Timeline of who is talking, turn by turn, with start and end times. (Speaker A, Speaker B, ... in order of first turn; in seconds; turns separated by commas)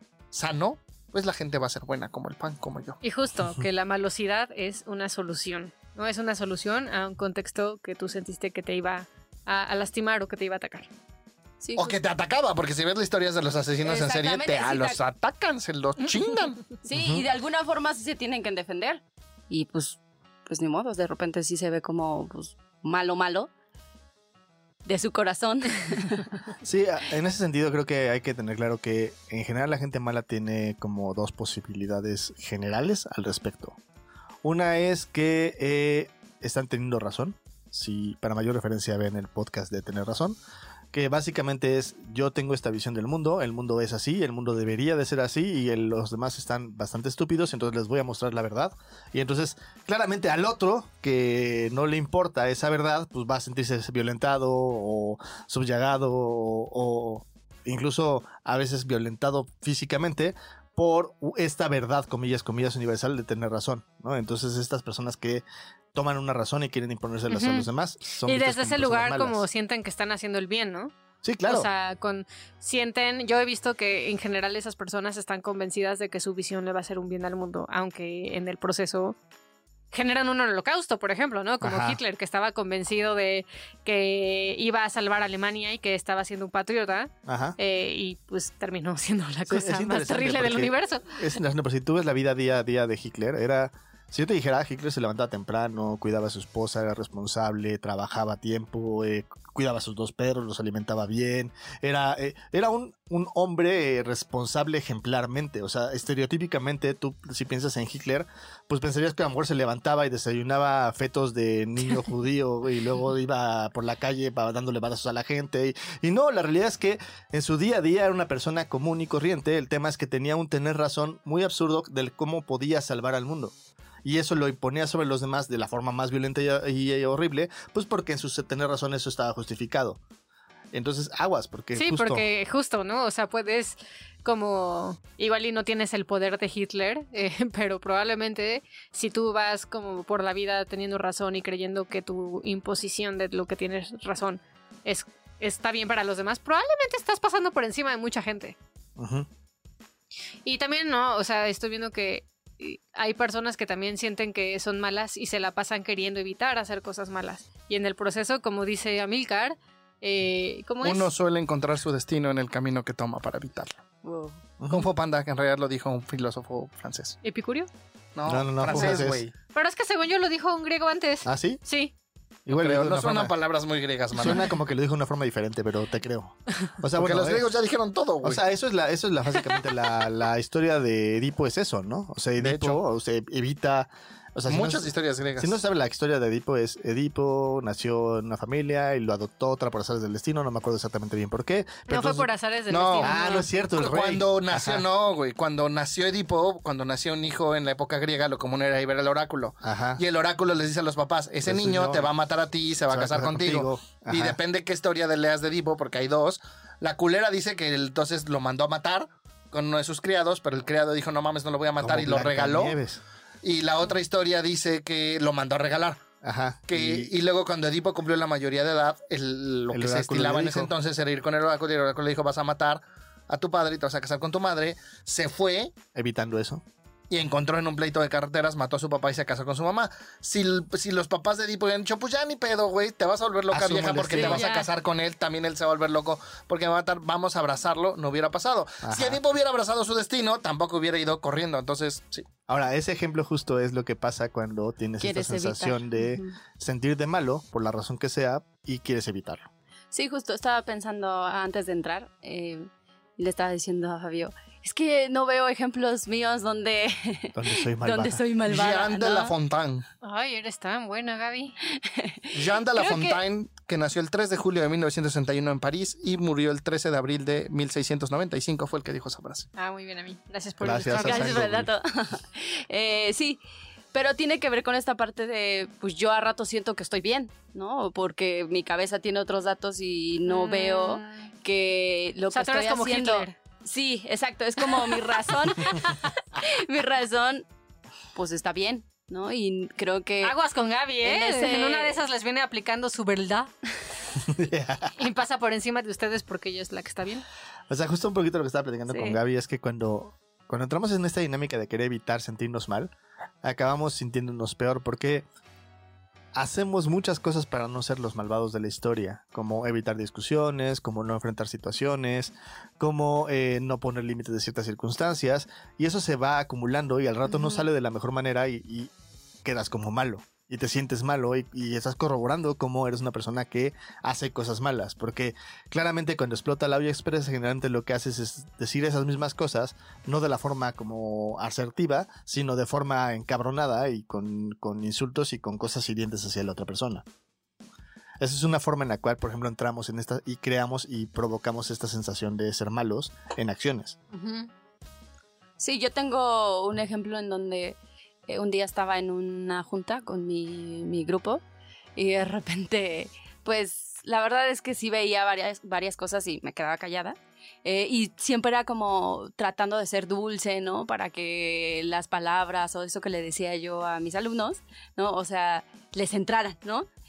Speaker A: 0.3-3.0, Speaker B: 3.0-10.9, Speaker C: 11.6-12.0, Speaker A: 11.8-16.7, Speaker C: 13.8-15.0, Speaker C: 16.8-23.5, Speaker D: 16.9-17.3, Speaker C: 24.9-26.3, Speaker D: 26.6-33.8, Speaker D: 34.4-40.4, Speaker D: 40.9-69.4, Speaker B: 67.3-67.7, Speaker B: 68.2-70.9, Speaker D: 71.2-71.7, Speaker B: 71.5-79.2, Speaker B: 79.9-91.2, Speaker D: 81.6-82.0, Speaker D: 87.3-87.6, Speaker D: 89.5-130.0, Speaker D: 130.7-132.2, Speaker B: 131.8-148.6, Speaker D: 149.0-149.3, Speaker B: 150.4-161.1, Speaker A: 160.8-163.8, Speaker C: 164.1-164.4, Speaker D: 164.6-164.9, Speaker A: 164.7-167.2, Speaker B: 167.2-167.7, Speaker A: 168.2-169.3, Speaker D: 168.3-169.2, Speaker B: 169.5-171.9, Speaker D: 171.2-171.6, Speaker D: 172.5-173.3, Speaker A: 172.5-174.5, Speaker D: 174.2-177.5, Speaker A: 176.9-178.4, Speaker D: 178.2-192.3, Speaker A: 182.4-182.8, Speaker A: 184.5-185.6, Speaker B: 191.9-193.5, Speaker A: 192.7-193.2, Speaker D: 193.0-194.8, Speaker A: 193.8-212.8, Speaker D: 199.6-200.0, Speaker D: 201.4-202.1, Speaker D: 202.9-204.4, Speaker D: 211.8-213.0, Speaker A: 213.4-216.0, Speaker D: 216.2-217.1, Speaker A: 216.7-225.7, Speaker D: 219.7-220.7, Speaker D: 225.9-226.6, Speaker A: 227.1-242.3, Speaker D: 233.5-234.5, Speaker C: 234.1-234.7, Speaker D: 238.8-239.2, Speaker D: 242.5-249.5, Speaker C: 245.0-246.3, Speaker C: 249.9-259.3, Speaker D: 257.4-258.2, Speaker A: 258.4-259.9, Speaker B: 260.0-261.6, Speaker C: 261.8-263.2, Speaker A: 262.3-269.5, Speaker B: 269.6-271.4, Speaker D: 270.6-271.7, Speaker C: 270.9-273.4, Speaker C: 273.9-287.5, Speaker B: 280.3-281.3, Speaker B: 282.3-283.3, Speaker B: 285.6-286.1, Speaker C: 288.1-290.4, Speaker B: 290.2-293.5, Speaker C: 291.0-292.0, Speaker D: 294.2-294.9, Speaker B: 295.0-297.2, Speaker D: 297.7-305.2, Speaker B: 298.9-299.2, Speaker D: 306.3-318.9, Speaker D: 319.4-337.0, Speaker D: 338.2-344.0, Speaker B: 344.1-344.5, Speaker C: 345.6-351.4, Speaker C: 352.0-366.9